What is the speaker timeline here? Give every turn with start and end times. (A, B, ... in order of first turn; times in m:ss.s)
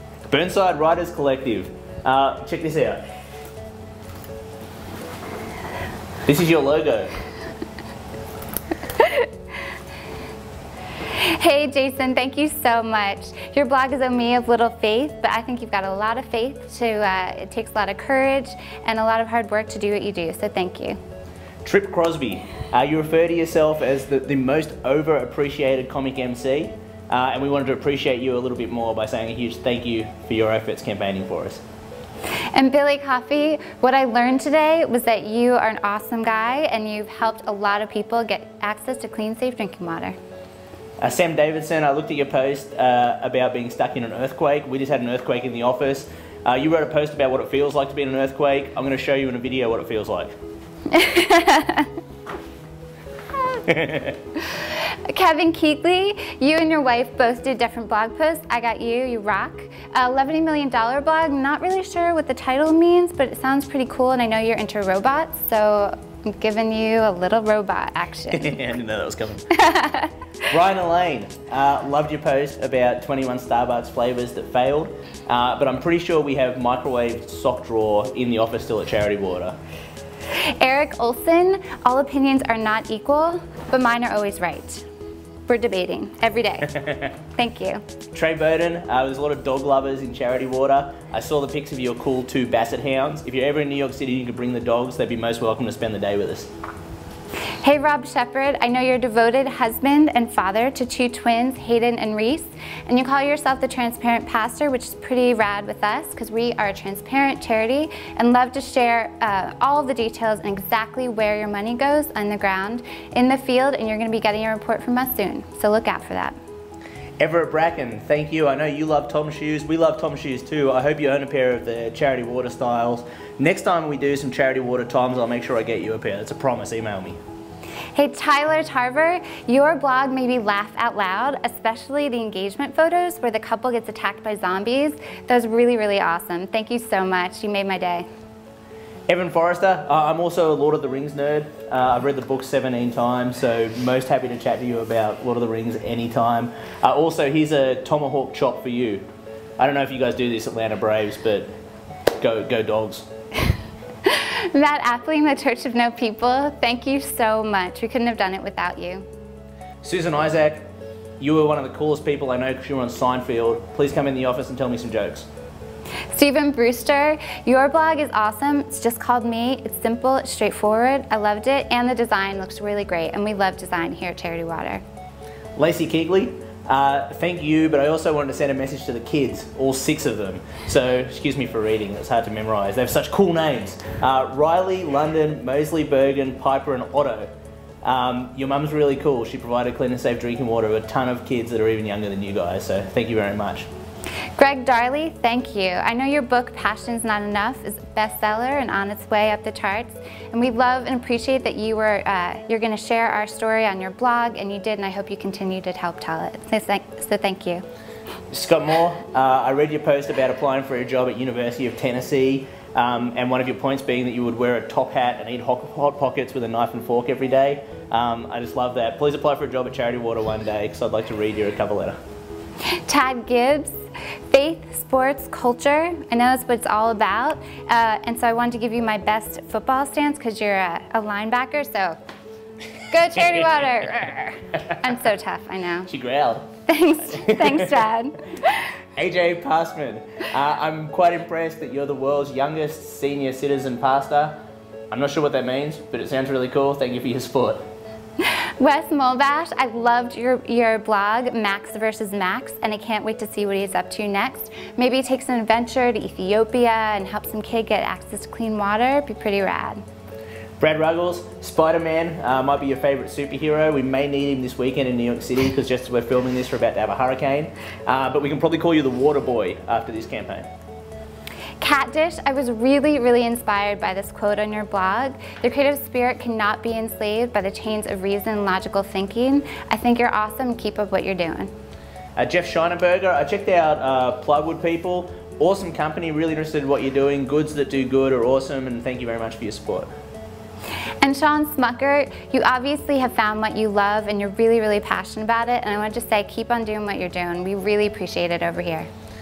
0:00.3-0:03.0 A
0:06.2-0:07.1 A
0:09.0-0:09.3 B
0:11.1-0:21.0 B
0:21.6-0:31.6 A
0:32.5-0:40.2 B
0:41.0-0:50.4 A
0:50.9-0:51.9 B
0:53.7-0:54.1 A
0:54.4-1:08.6 B
1:08.3-1:09.5 A
1:09.5-1:10.1 B
1:10.5-1:19.6 A
1:20.4-1:24.8 B
1:25.5-1:27.8 B
1:28.1-1:36.5 A
1:37.6-1:56.4 B
1:57.2-2:07.2 A
2:08.0-2:18.0 B
2:19.1-2:29.0 A
2:29.6-2:31.5 A
2:32.2-2:33.1 A
2:34.0-2:39.1 B
2:39.8-2:40.7 A
2:41.2-2:45.3 A
2:46.1-2:54.8 B
2:55.6-3:07.3 A
3:07.8-3:13.7 A
3:14.4-3:27.6 B
3:28.3-3:42.0 A
3:42.9-3:43.8 B
3:44.3-3:52.0 B
3:52.9-3:55.9 B
3:55.9-3:56.5 A
3:56.7-3:58.6 B
3:57.1-3:57.8 A
3:59.0-4:04.4 A
4:04.9-4:07.6 A
4:08.2-4:19.8 B
4:20.6-4:30.5 A
4:31.6-4:41.5 B
4:42.2-4:49.9 A
4:51.0-4:58.9 B